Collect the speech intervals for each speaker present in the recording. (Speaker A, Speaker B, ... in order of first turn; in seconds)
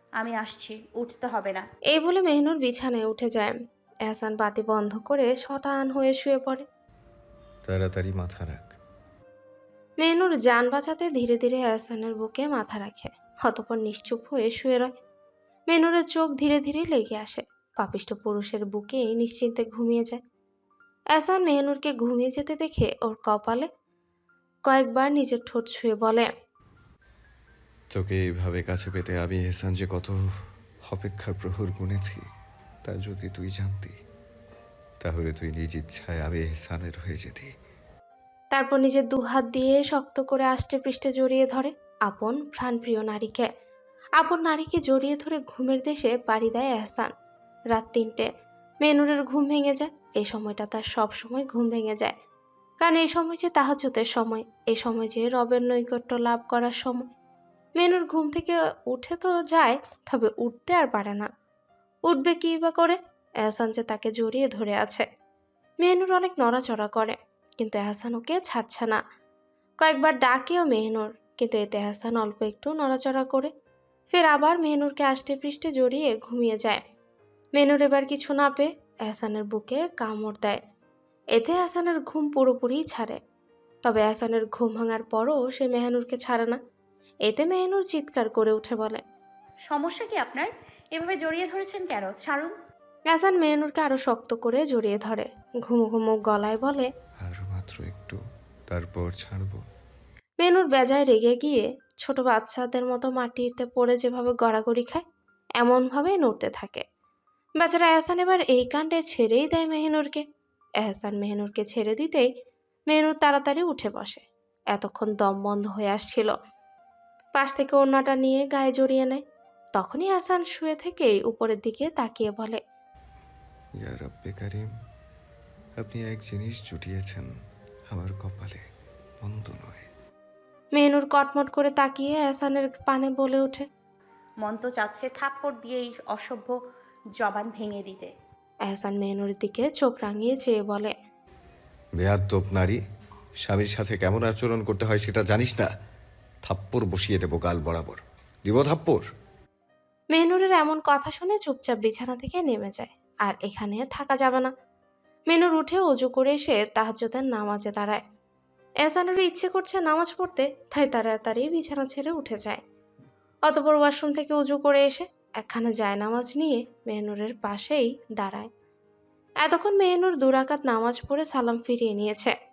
Speaker A: 0.2-1.6, 89.7-92.5, 134.4-136.5, 137.2-138.1
Speaker B: 1.9-3.5, 4.1-6.6, 10.0-14.9, 15.7-20.2, 21.1-23.7, 24.6-26.3, 38.5-43.5, 44.2-47.1, 47.7-48.3, 48.8-52.1, 52.8-57.0, 57.8-61.3, 62.1-65.0, 65.8-69.0, 69.8-73.5, 74.1-76.8, 77.5-80.6, 81.3-83.2, 83.8-86.6, 87.2-89.0, 93.1-96.9, 100.4-105.0, 105.6-106.8, 107.6-110.2, 110.8-112.3, 112.9-116.3, 117.3-119.2, 119.8-122.6, 130.8-133.7, 138.7-140.9, 150.1-154.5, 155.3-158.0, 158.8-162.6, 163.5-168.5, 169.4-172.3
Speaker C: 7.7-8.7, 27.9-30.2, 30.9-32.2, 32.8-33.9, 35.0-37.5, 97.2-98.2, 98.7-99.6, 123.8-124.7, 125.8-127.3, 127.9-128.6, 129.2-129.9, 142.0-142.8, 143.4-145.7, 146.4-149.0